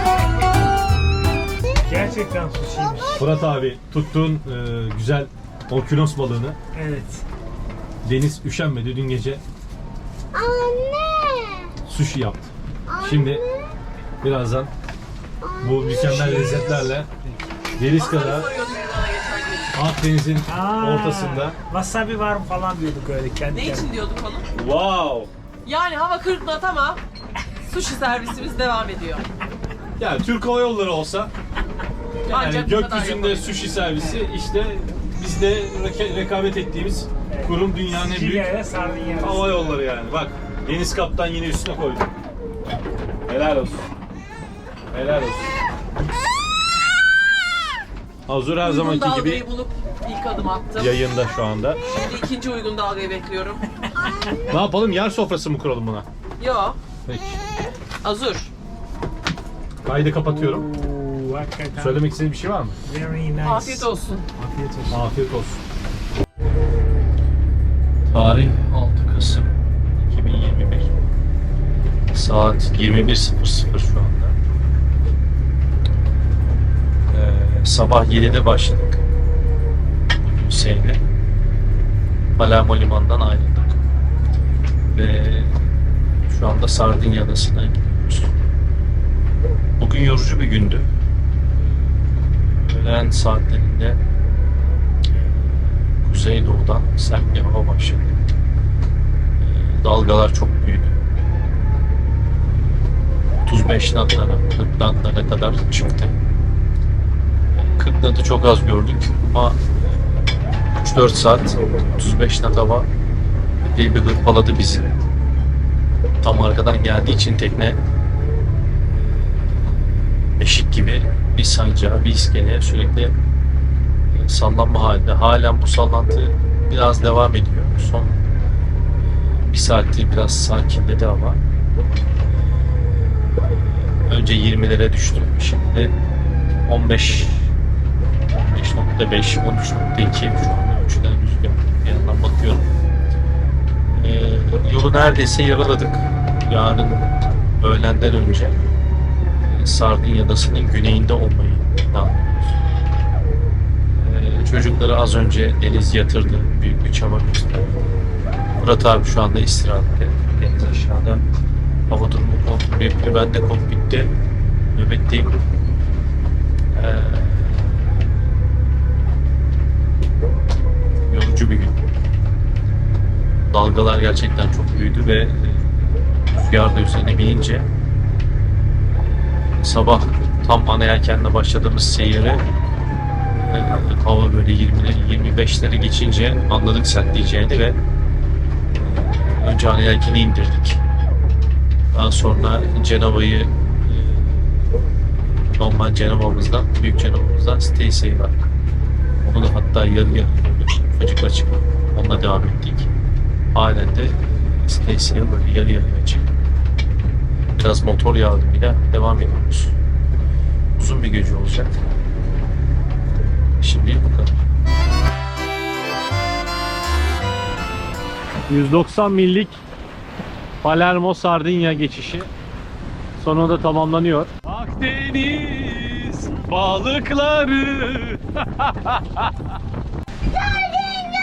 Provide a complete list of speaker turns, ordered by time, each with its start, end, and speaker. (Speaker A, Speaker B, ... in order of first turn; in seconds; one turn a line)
Speaker A: 1.8-3.2
Speaker B: 3.2-6.6
Speaker A: 6.7-7.2
Speaker B: 8.0-9.4
Speaker B: 11.8-13.4
Speaker B: 14.2-14.7
Speaker B: 15.6-17.1
Speaker A: 16.0-16.9
Speaker B: 17.8-18.5
Speaker C: 17.9-19.8
Speaker B: 19.7-21.6
Speaker A: 20.4-23.9
Speaker C: 23.5-24.4
Speaker B: 24.5-25.3
Speaker C: 25.6-27.0
Speaker C: 27.6-29.2
Speaker B: 30.0-31.3
Speaker C: 32.2-33.6
Speaker B: 32.3-38.6
Speaker A: 37.3-39.6
Speaker B: 39.2-42.1
Speaker B: 43.3-43.9
Speaker B: 44.9-45.5
Speaker B: 48.3-49.4
Speaker C: 48.6-51.0
Speaker B: 50.8-51.8
Speaker C: 51.9-53.6
Speaker B: 54.5-56.0
Speaker C: 56.4-56.8
Speaker B: 57.0-57.4
Speaker C: 58.0-58.5
Speaker B: 59.8-60.7
Speaker A: 60.2-62.0
Speaker B: 61.7-62.8
Speaker A: 62.8-65.0
Speaker C: 63.4-64.2
Speaker B: 64.9-65.6
Speaker D: 68.1-69.5
Speaker D: 70.0-70.9
Speaker D: 72.1-74.3
Speaker D: 77.1-79.0
Speaker D: 80.2-81.0
Speaker D: 82.4-83.8
Speaker D: 84.9-85.6
Speaker D: 86.3-88.3
Speaker D: 89.8-90.8
Speaker D: 92.6-94.0
Speaker D: 95.1-98.2
Speaker D: 99.4-101.0
Speaker D: 103.5-106.1
Speaker D: 107.5-109.8
Speaker D: 110.8-112.9
Speaker D: 113.6-115.0
Speaker D: 116.2-117.8
Speaker D: 118.9-123.1
Speaker D: 124.1-128.2
Speaker D: 129.0-131.4
Speaker D: 132.3-135.9
Speaker D: 136.7-137.4
Speaker D: 138.3-142.7
Speaker D: 143.9-147.1
Speaker D: 147.6-148.6
Speaker D: 149.4-152.6
Speaker D: 153.9-157.8
Speaker D: 158.6-161.2
Speaker D: 161.9-164.1
Speaker D: 164.7-165.4
Speaker D: 166.7-168.0
Speaker D: 171.1-171.8
Speaker D: 173.5-177.7
Speaker D: 178.9-182.4
Speaker D: 183.4-187.8
Speaker D: 188.7-190.8
Speaker D: 191.9-194.7
Speaker D: 195.4-198.4
Speaker D: 199.2-202.9
Speaker D: 203.5-206.3
Speaker D: 207.6-209.8
Speaker D: 210.8-211.7
Speaker D: 213.6-214.4
Speaker B: 218.5-219.6
Speaker B: 220.6-222.3
Speaker B: 223.2-229.3